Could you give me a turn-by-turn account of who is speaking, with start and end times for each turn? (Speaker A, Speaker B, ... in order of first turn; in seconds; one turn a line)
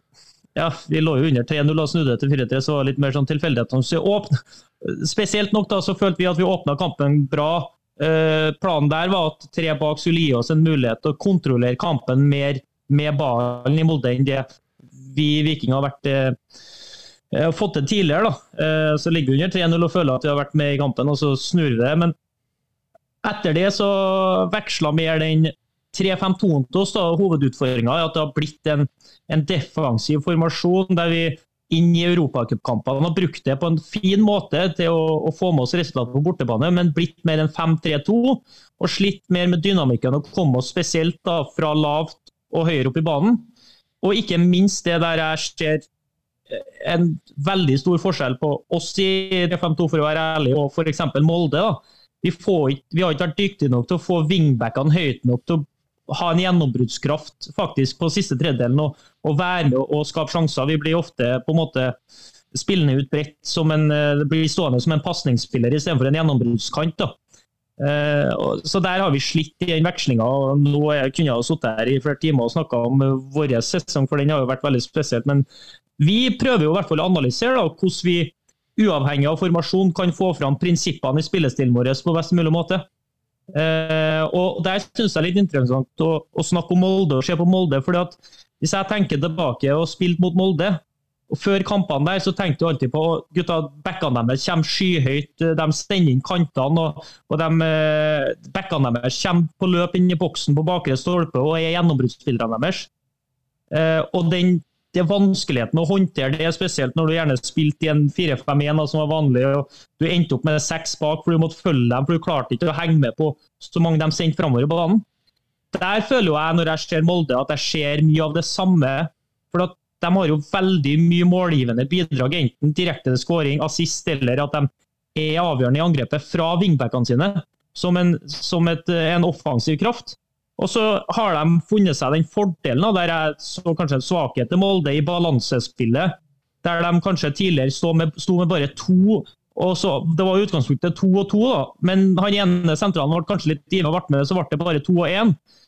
Speaker A: 0.6-14.5
Speaker A: 15.0-16.4
Speaker A: 17.3-22.1
Speaker A: 23.2-43.5
Speaker A: 44.0-45.9
Speaker A: 46.5-62.0
Speaker A: 62.5-67.2
Speaker A: 67.8-75.5
Speaker A: 76.0-82.8
Speaker A: 83.5-102.9
Speaker A: 103.7-115.0
Speaker A: 115.7-145.4